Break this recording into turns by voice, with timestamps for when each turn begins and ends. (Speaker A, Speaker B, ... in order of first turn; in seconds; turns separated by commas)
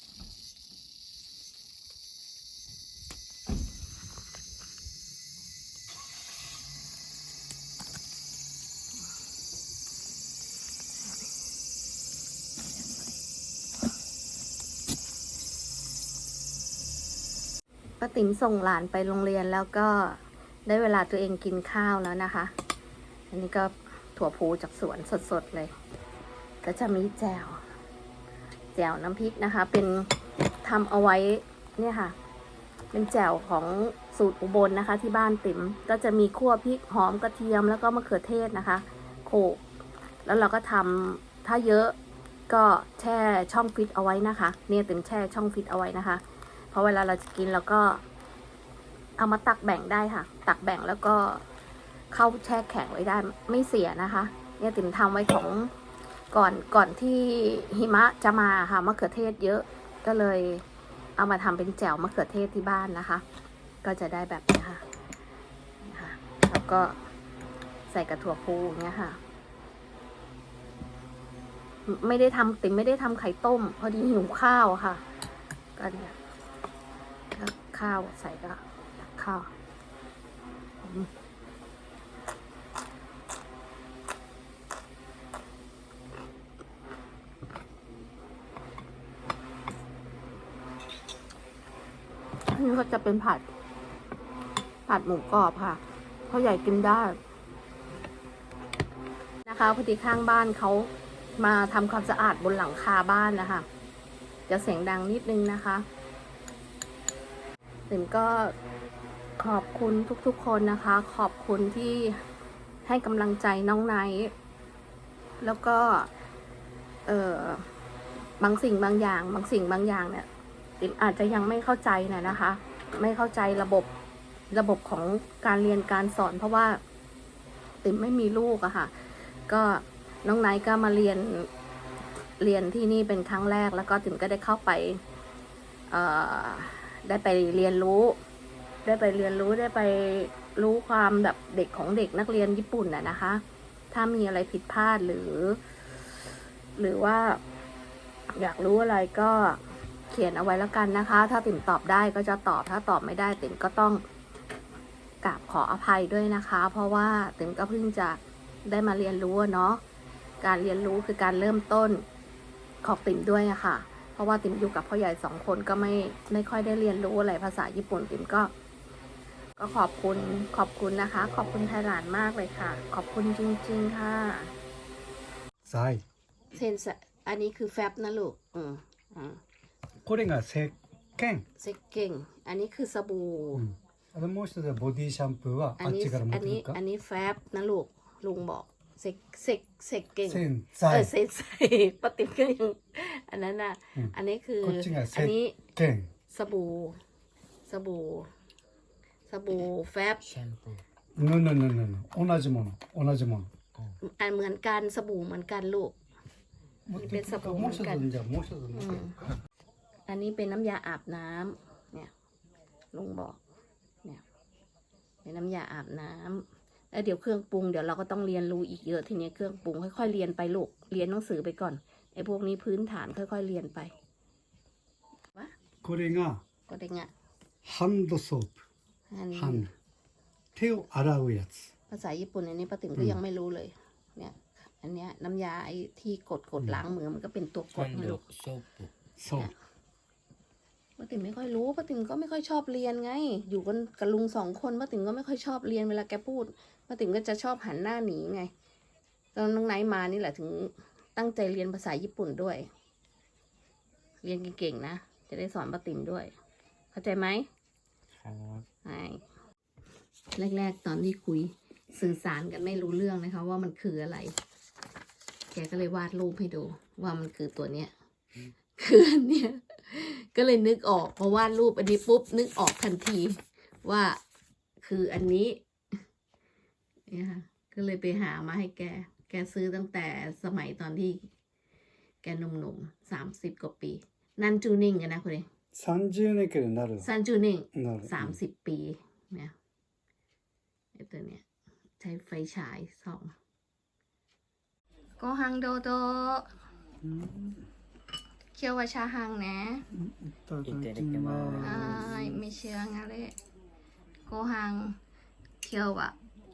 Speaker A: 18.0-22.5, Speaker A: 23.3-25.7, Speaker A: 26.6-27.6, Speaker A: 28.7-30.1, Speaker A: 30.6-32.1, Speaker A: 32.9-39.6, Speaker A: 40.2-41.9, Speaker A: 42.5-48.0, Speaker A: 49.2-51.4, Speaker A: 52.1-55.7, Speaker A: 56.3-60.6, Speaker A: 61.2-63.2, Speaker A: 63.8-64.8, Speaker A: 65.8-67.0, Speaker A: 67.9-69.2, Speaker A: 71.8-75.0, Speaker A: 75.8-76.2, Speaker A: 77.3-79.5, Speaker A: 80.8-81.1, Speaker A: 92.5-93.5, Speaker A: 94.9-97.2, Speaker A: 99.5-103.7, Speaker A: 104.5-105.8, Speaker A: 107.9-108.5, Speaker A: 109.4-112.2, Speaker A: 112.8-114.3, Speaker A: 115.4-116.1, Speaker A: 117.0-117.7, Speaker A: 118.4-120.3, Speaker A: 120.8-123.9, Speaker A: 124.5-126.8, Speaker A: 127.8-131.5, Speaker A: 132.4-135.0, Speaker A: 135.9-138.2, Speaker A: 138.8-145.6, Speaker A: 146.8-147.4, Speaker A: 148.3-154.0, Speaker A: 155.2-159.8, Speaker A: 160.4-162.0, Speaker A: 162.8-168.5, Speaker A: 169.6-174.5, Speaker B: 175.6-176.0, Speaker A: 176.5-179.4, Speaker B: 180.0-181.4, Speaker A: 181.6-183.6, Speaker B: 183.5-186.8, Speaker A: 185.8-195.6, Speaker B: 190.3-191.1, Speaker B: 193.9-196.1, Speaker A: 196.3-197.0, Speaker A: 197.7-198.3, Speaker A: 199.3-200.2, Speaker C: 200.2-200.8, Speaker B: 201.2-203.5, Speaker A: 204.0-205.9, Speaker B: 206.9-209.1, Speaker A: 206.9-208.1, Speaker A: 208.7-209.1, Speaker A: 210.1-212.1, Speaker A: 212.9-213.4, Speaker A: 215.2-223.9, Speaker B: 225.8-226.4, Speaker A: 226.7-227.1, Speaker B: 227.6-228.6, Speaker A: 229.1-229.7, Speaker B: 229.3-229.7, Speaker B: 230.5-231.7, Speaker A: 231.9-238.2, Speaker C: 237.7-238.9, Speaker B: 239.2-239.5, Speaker A: 241.0-248.5, Speaker A: 249.3-252.7, Speaker A: 254.2-256.3, Speaker A: 256.9-257.5, Speaker C: 258.2-258.6, Speaker A: 258.8-259.2, Speaker A: 260.3-264.3, Speaker A: 265.5-267.9, Speaker A: 268.8-274.2, Speaker A: 274.8-275.6, Speaker A: 277.1-281.2, Speaker A: 282.2-285.4, Speaker B: 285.7-287.1, Speaker A: 287.0-289.5, Speaker B: 287.7-288.4, Speaker A: 290.9-291.4, Speaker A: 292.0-293.3, Speaker A: 295.2-296.5, Speaker B: 297.0-297.6, Speaker A: 298.5-299.8, Speaker B: 299.9-302.4, Speaker C: 300.6-302.1, Speaker A: 301.6-303.4, Speaker A: 304.3-305.0, Speaker A: 305.6-306.1